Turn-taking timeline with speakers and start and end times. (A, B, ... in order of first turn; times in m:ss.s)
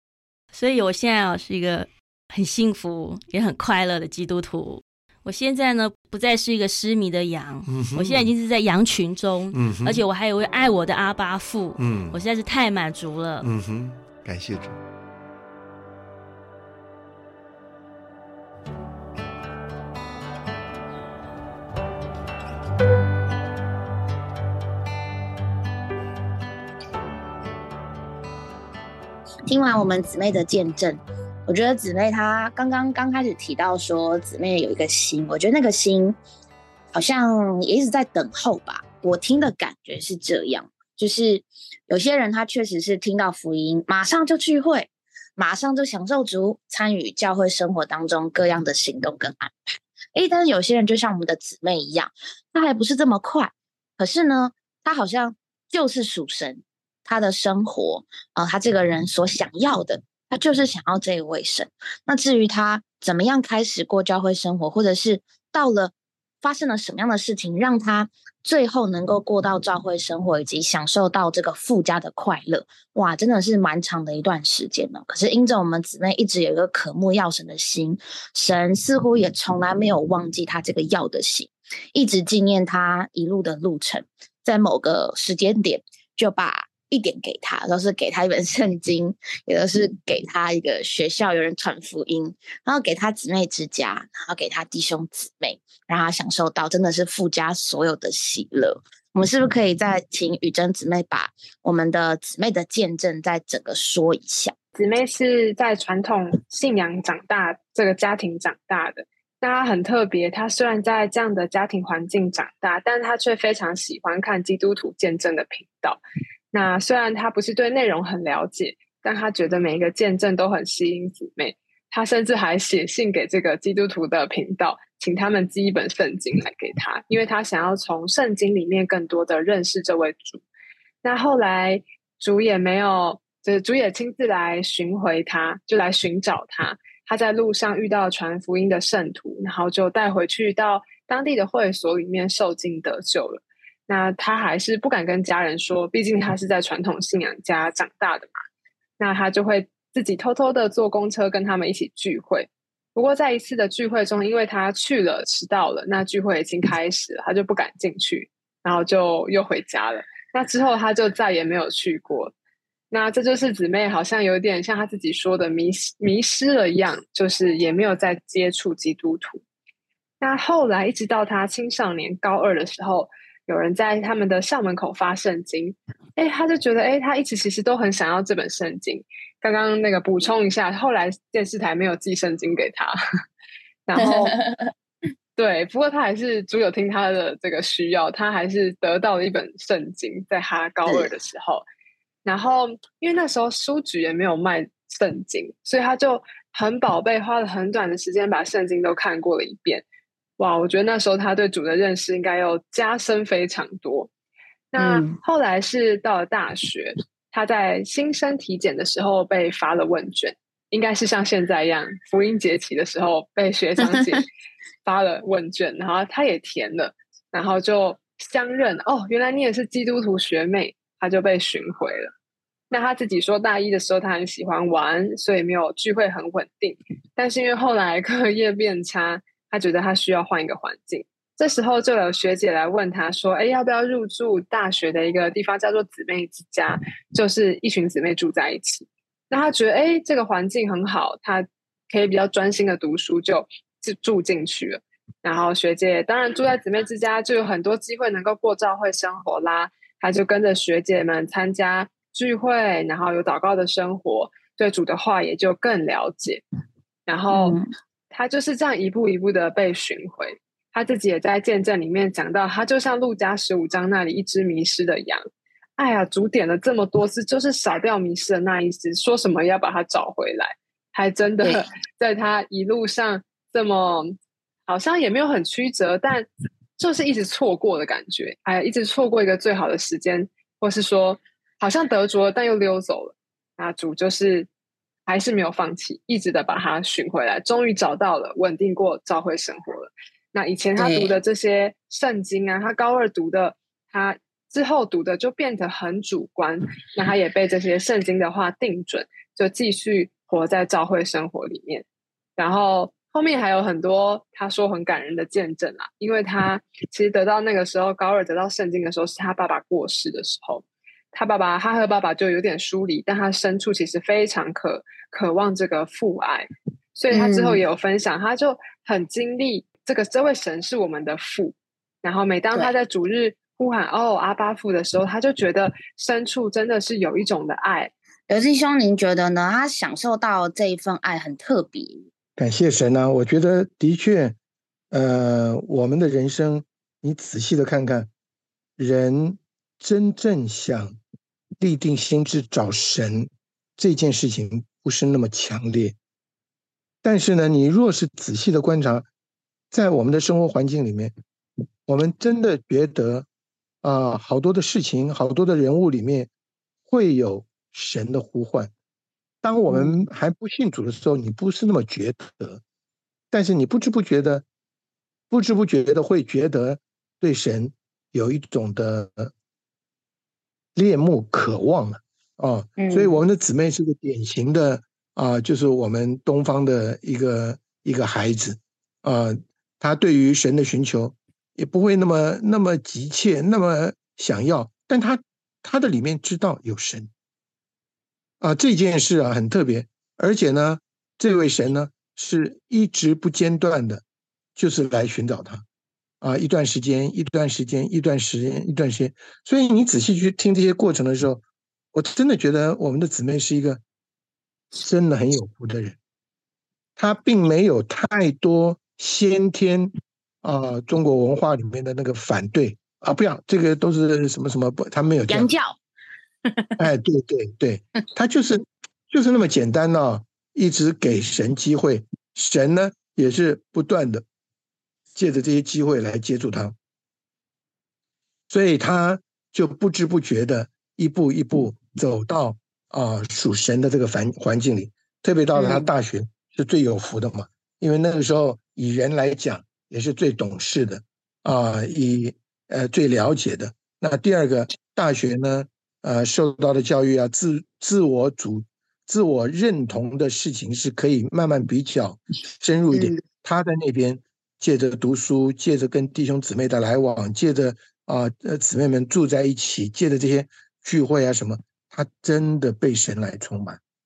0:00.5-0:13.5 A
0:07.6-0:08.3 B
0:09.5-0:10.0 B
0:11.8-0:12.2 B
0:13.4-0:14.8 B
0:29.4-0:36.2 C
0:36.9-1:44.5 C
1:44.7-1:56.0 D
1:56.5-2:10.4 D
2:11.0-2:28.3 D
2:29.0-2:42.3 D
2:42.9-2:49.4 D
2:50.2-3:02.9 D
3:03.8-3:04.4 D
3:04.0-3:04.7 C
3:05.4-3:11.6 D
3:10.8-3:11.1 C
3:12.2-3:19.8 D
3:20.4-3:24.1 D
3:24.7-3:34.3 D
3:24.8-3:25.2 C
3:33.8-3:34.2 C
3:34.8-3:42.1 D
3:42.7-4:16.4 D
4:17.1-4:17.6 D
4:17.3-4:17.7 C
4:18.1-4:25.2 D
4:25.8-4:36.3 D
4:36.8-4:44.5 D
4:45.0-5:01.8 D
4:50.8-4:51.2 C
5:02.4-5:27.9 D
5:17.1-5:17.6 C
5:28.3-5:32.1 C
5:32.4-5:34.4 E
5:34.9-5:38.1 E
5:38.8-5:41.0 E
5:41.6-5:46.0 E
5:47.0-5:49.1 E
5:49.7-5:51.1 E
5:51.9-5:53.2 E
5:53.8-5:56.3 E
5:56.9-5:58.7 E
5:59.4-6:02.6 E
5:59.7-6:00.1 C
6:03.3-6:04.4 E
6:05.3-6:09.3 E
6:10.7-6:27.1 E
6:12.8-6:13.2 C
6:28.4-6:34.0 E
6:34.6-6:35.6 E
6:36.2-6:41.4 E
6:41.9-6:43.8 E
6:44.7-6:46.0 E
6:47.0-6:49.9 E
6:50.4-6:55.5 E
6:55.3-6:55.8 C
6:56.5-6:56.9 C
6:56.8-7:04.2 E
7:05.1-7:06.8 E
7:08.5-7:43.8 E
7:15.5-7:15.9 C
7:32.9-7:33.2 C